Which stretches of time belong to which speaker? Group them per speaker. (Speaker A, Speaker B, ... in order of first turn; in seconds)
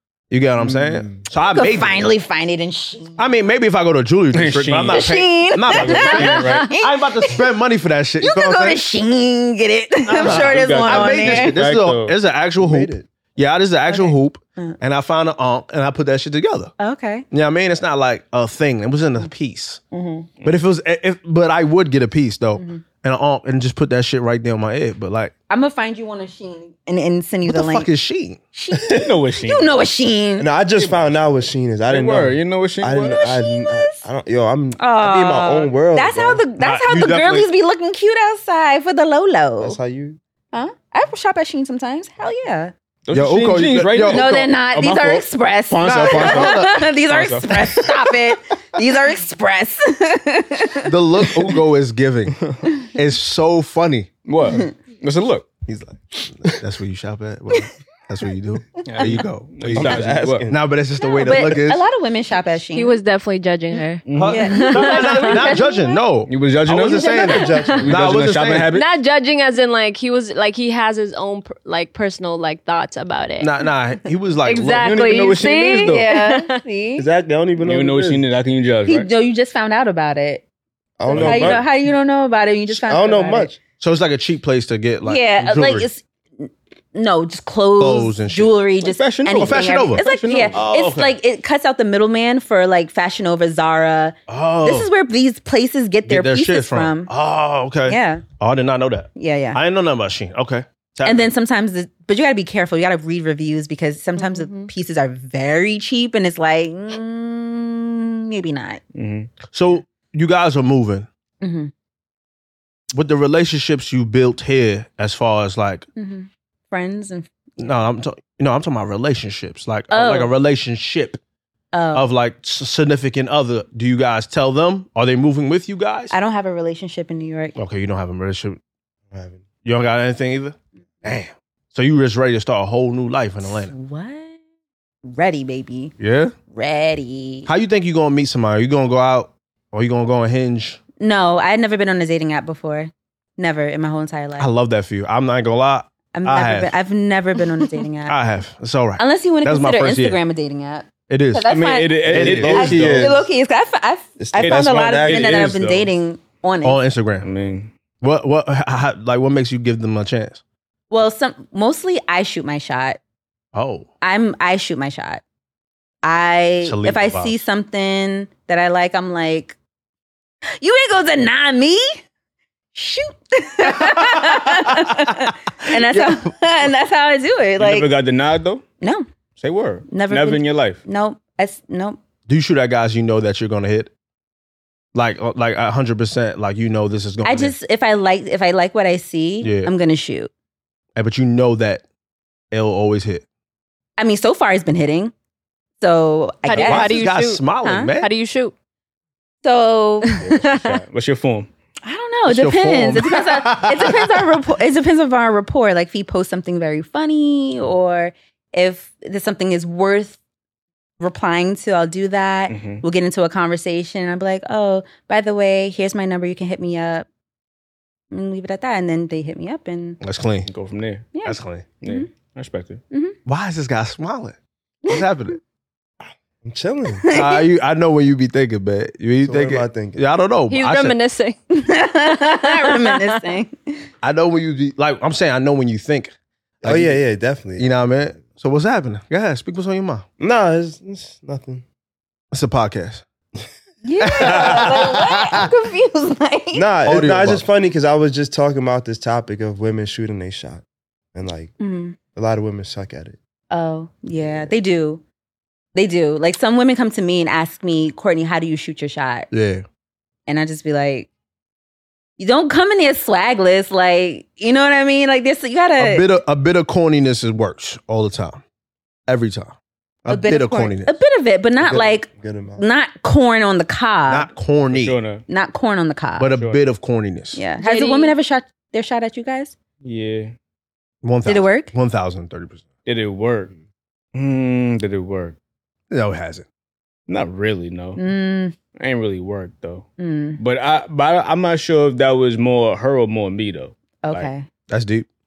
Speaker A: 0.3-2.1, 3.2-8.8, 10.1-16.7, 17.3-19.8, 20.4-25.3, 27.5-28.4, 36.6-37.5, 43.1-44.5, 45.8-46.8, 50.8-54.1, 55.7-61.8, 64.2-68.8, 73.4-75.2, 83.8-85.9, 87.8-88.5, 89.4-91.2, 94.3-94.9, 96.1-101.3, 109.5-111.1, 112.9-115.9, 117.6-121.2, 121.9-126.1, 127.6-128.6, 129.6-133.7, 136.0-136.3, 137.5-140.8, 144.4-146.7, 148.1-150.2, 151.1-151.5, 152.1-152.7, 156.6-157.3, 158.0-160.4, 163.5-163.9, 166.6-167.4, 173.8-175.1, 175.7-176.2, 182.3-183.9, 184.9-187.6, 189.4-189.7, 191.0-191.8, 192.5-193.2, 196.6-198.1, 202.3-204.4, 220.0-220.5, 221.2-221.7, 223.3-225.4, 227.1-231.0, 234.0-237.0, 237.6-240.1, 242.3-243.0, 244.0-245.5, 246.9-247.4, 259.3-259.6, 265.8-268.4, 269.1-270.9, 274.1-275.0, 276.2-277.4, 281.0-282.6, 285.9-286.4, 294.7-295.1
Speaker B: 0.6-1.2, 12.6-13.1, 28.7-29.1, 30.4-36.4, 39.6-40.2, 59.7-60.6, 66.9-68.0, 77.0-78.2, 81.0-81.7, 82.7-83.6, 129.1-129.4, 151.5-153.2, 154.2-155.5, 226.4-227.1, 229.2-230.0, 236.6-237.7, 240.2-241.6, 244.2-244.8, 246.5-251.5, 252.1-253.2, 254.2-254.5, 271.6-272.6
Speaker C: 1.5-3.2, 4.9-7.4, 8.2-11.6, 13.9-14.8, 16.8-17.3, 19.9-20.3, 22.6-22.8, 25.5-27.9, 28.5-30.5, 33.1-34.0, 34.8-39.8, 40.5-42.7, 44.1-50.9, 61.1-63.0, 63.7-65.8, 67.5-67.7, 75.8-77.1, 78.9-80.4, 81.1-83.5, 85.0-97.1, 97.9-98.2, 99.2-99.6, 101.0-108.8, 111.4-111.7, 116.0-117.3, 119.9-120.3, 121.7-122.1, 126.1-127.6, 133.4-134.3, 135.0-135.9, 136.5-137.5, 141.0-144.5, 146.1-148.2, 149.0-156.8, 160.9-163.0, 164.0-165.2, 166.0-169.6, 170.6-172.0, 172.8-177.9, 178.8-179.1, 179.9-182.0, 187.2-190.3, 194.0-195.1, 195.8-197.0, 197.6-197.9, 199.4-200.8, 201.8-210.2, 211.0-217.1, 218.1-220.0, 221.1-222.1, 222.9-223.2, 227.0-227.5, 231.5-233.9, 243.8-246.7, 251.6-252.0, 253.5-255.0, 255.8-259.3, 260.3-261.1, 262.2-266.1, 270.1-274.3, 275.3-276.3, 277.4-279.6, 281.3-281.7, 288.0-288.6, 290.0-290.4, 294.0-294.5
Speaker D: 4.3-5.1, 5.7-6.7, 10.1-12.2, 28.9-29.8, 30.7-31.2, 31.9-33.2, 43.1-48.0, 52.4-52.7, 54.3-55.5, 58.9-60.5, 64.1-64.7, 66.3-68.9, 74.8-76.1, 77.6-79.1, 81.1-81.6, 88.8-90.6, 109.0-109.3, 151.5-153.2, 154.4-155.9, 157.2-157.7, 177.6-178.6, 179.4-180.8, 200.2-201.5, 212.5-212.8, 220.5-221.1, 221.8-222.8, 274.7-275.2, 276.3-276.6, 279.8-280.3, 282.9-283.5, 284.1-285.4, 287.1-288.0, 288.8-289.9, 290.4-294.3
Speaker E: 62.7-65.7, 68.7-73.7, 74.4-76.6, 104.2-104.7, 196.4-197.5, 198.0-198.5, 230.5-231.4, 232.1-233.2, 277.6-278.2